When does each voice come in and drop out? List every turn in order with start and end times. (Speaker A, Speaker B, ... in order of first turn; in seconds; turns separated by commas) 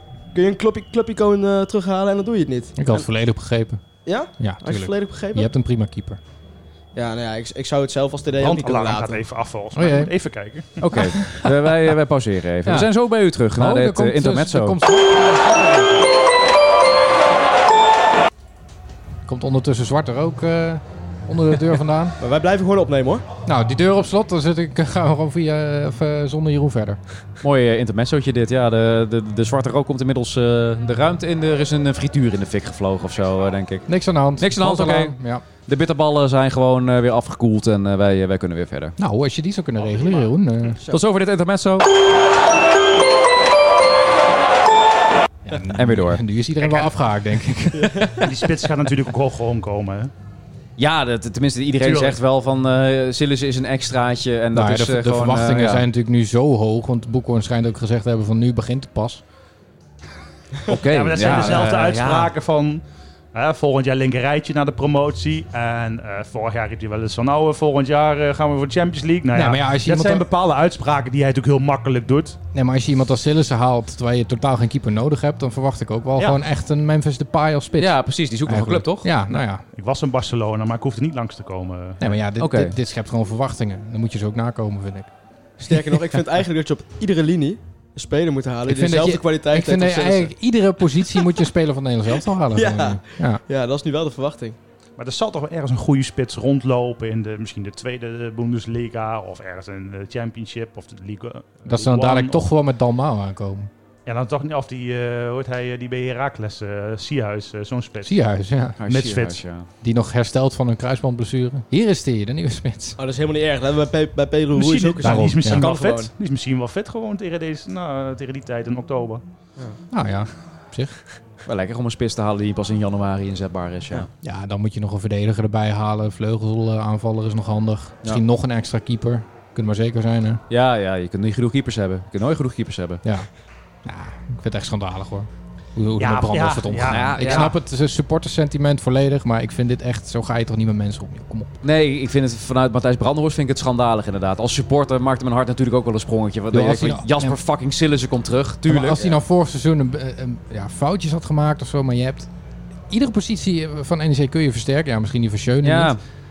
Speaker A: 0.3-3.1, Speaker B: 2.8-3.8, Speaker A: 4.0-5.5, Speaker B: 4.4-6.2, Speaker A: 7.0-9.2, Speaker C: 8.4-11.1, Speaker B: 9.7-10.1, Speaker D: 10.8-14.8, Speaker B: 11.2-11.7, Speaker B: 12.7-12.9, Speaker B: 13.5-16.1, Speaker B: 19.3-22.2, Speaker A: 22.2-23.2, Speaker B: 23.4-27.0, Speaker D: 27.4-33.9, Speaker B: 33.9-35.5, Speaker D: 34.4-39.0, Speaker B: 39.0-40.8, Speaker A: 40.6-41.0, Speaker D: 40.9-41.9, Speaker B: 45.5-48.1, Speaker D: 45.8-46.2, Speaker C: 46.6-46.9, Speaker A: 47.7-48.3, Speaker C: 48.2-50.1, Speaker D: 50.8-55.8, Speaker C: 51.8-52.2, Speaker B: 54.5-59.2, Speaker D: 60.7-61.7, Speaker C: 60.7-72.4, Speaker B: 61.2-62.3, Speaker B: 69.3-70.2, Speaker B: 72.5-79.7, Speaker D: 77.8-79.1, Speaker C: 79.7-82.2, Speaker B: 82.0-85.1, Speaker D: 82.4-82.7, Speaker A: 85.6-90.3, Speaker B: 88.7-93.4, Speaker A: 92.5-94.6, Speaker C: 95.0-102.5, Speaker B: 101.7-103.7, Speaker C: 104.1-108.1, Speaker B: 108.0-108.8, Speaker D: 108.8-109.7, Speaker C: 108.9-109.4, Speaker B: 109.8-113.0, Speaker A: 113.0-116.1, Speaker C: 114.5-119.2, Speaker B: 115.0-115.7, Speaker B: 119.9-121.0, Speaker D: 121.5-124.1, Speaker B: 124.2-130.4, Speaker D: 130.5-133.0, Speaker B: 133.8-141.6, Speaker C: 136.0-137.5, Speaker D: 136.9-137.6, Speaker D: 141.6-149.2, Speaker B: 146.5-147.4, Speaker B: 148.7-152.3, Speaker B: 152.9-156.0, Speaker D: 155.6-156.0